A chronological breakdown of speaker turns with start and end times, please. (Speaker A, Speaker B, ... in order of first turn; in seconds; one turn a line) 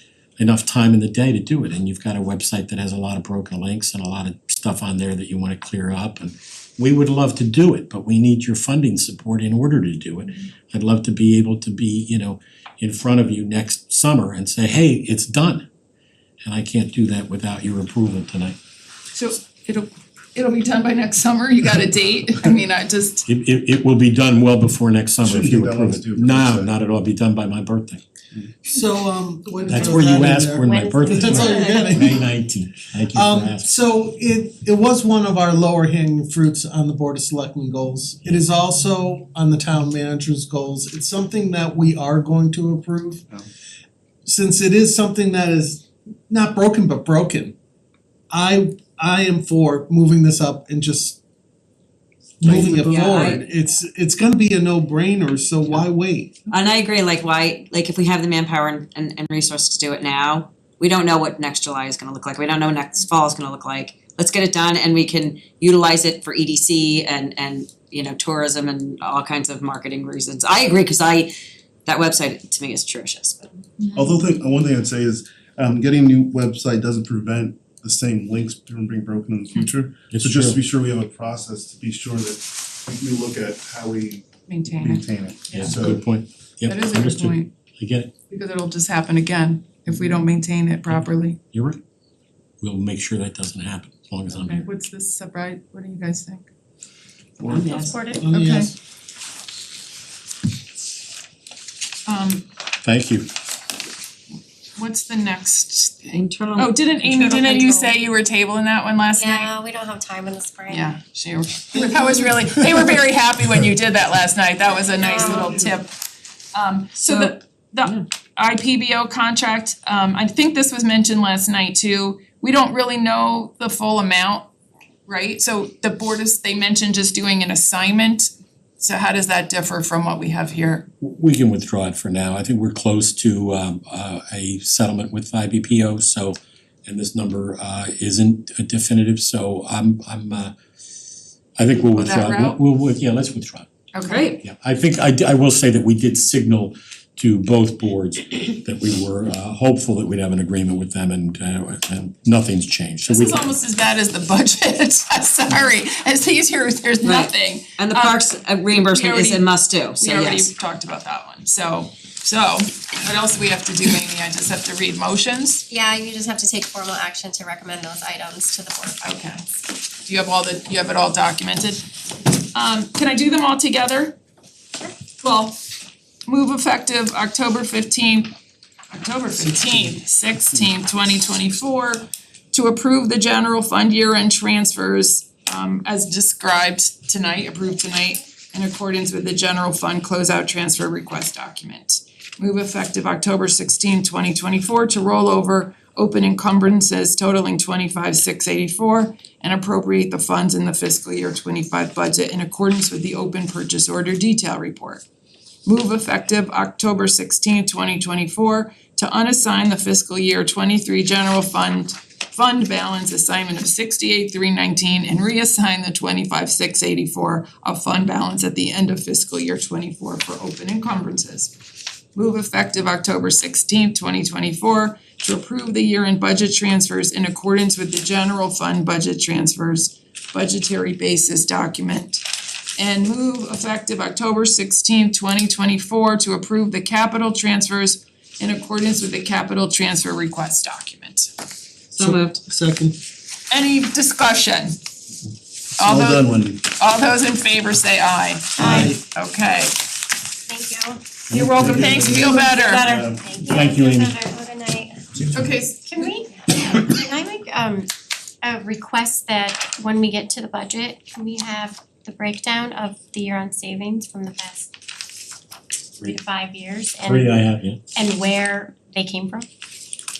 Speaker A: 0.4-15.7
Speaker A: 16.4-18.6
Speaker B: 19.1-23.2
Speaker A: 23.2-28.0
Speaker C: 25.2-26.7
Speaker D: 28.6-32.3
Speaker A: 29.6-33.7
Speaker E: 29.7-32.0
Speaker D: 33.1-43.2
Speaker D: 44.2-47.5
Speaker D: 48.3-51.2
Speaker D: 52.4-56.4
Speaker C: 52.5-53.2
Speaker F: 52.5-53.4
Speaker F: 56.5-71.3
Speaker F: 71.8-73.5
Speaker B: 73.8-74.2
Speaker C: 73.9-86.0
Speaker A: 80.1-80.6
Speaker B: 84.5-85.8
Speaker A: 85.5-88.1
Speaker B: 86.6-87.5
Speaker B: 88.3-91.4
Speaker A: 90.9-91.8
Speaker A: 92.6-94.7
Speaker B: 94.4-96.5
Speaker C: 97.4-97.7
Speaker F: 97.5-98.0
Speaker E: 97.6-98.2
Speaker D: 98.2-98.7
Speaker B: 98.3-98.7
Speaker B: 102.1-102.5
Speaker A: 102.8-103.3
Speaker B: 104.8-109.5
Speaker F: 106.0-107.3
Speaker E: 107.2-107.9
Speaker E: 109.1-111.0
Speaker B: 110.7-115.9
Speaker E: 115.0-115.7
Speaker B: 116.5-124.5
Speaker F: 117.1-117.3
Speaker B: 125.0-130.9
Speaker A: 131.0-140.5
Speaker A: 141.6-143.7
Speaker B: 141.8-142.6
Speaker B: 143.9-144.4
Speaker F: 144.1-144.4
Speaker A: 144.4-153.4
Speaker B: 153.1-165.7
Speaker F: 157.0-160.5
Speaker E: 165.7-169.4
Speaker B: 169.0-169.4
Speaker B: 170.0-171.8
Speaker B: 172.5-174.2
Speaker B: 175.2-175.6
Speaker B: 176.2-178.3
Speaker B: 178.9-205.0
Speaker B: 205.7-221.5
Speaker B: 222.1-232.2
Speaker B: 232.8-241.3
Speaker F: 241.9-242.4
Speaker D: 241.9-243.0
Speaker B: 243.5-244.8
Speaker C: 245.8-246.6
Speaker B: 245.8-249.8
Speaker D: 248.6-249.0
Speaker E: 248.6-248.9
Speaker E: 250.5-251.1
Speaker A: 251.3-252.2
Speaker B: 251.3-252.8
Speaker C: 251.6-253.2
Speaker E: 252.1-255.1
Speaker A: 253.4-254.2
Speaker B: 255.3-256.2
Speaker E: 255.8-257.9
Speaker E: 258.4-264.7
Speaker E: 266.0-267.4
Speaker A: 267.0-267.8
Speaker E: 267.9-269.5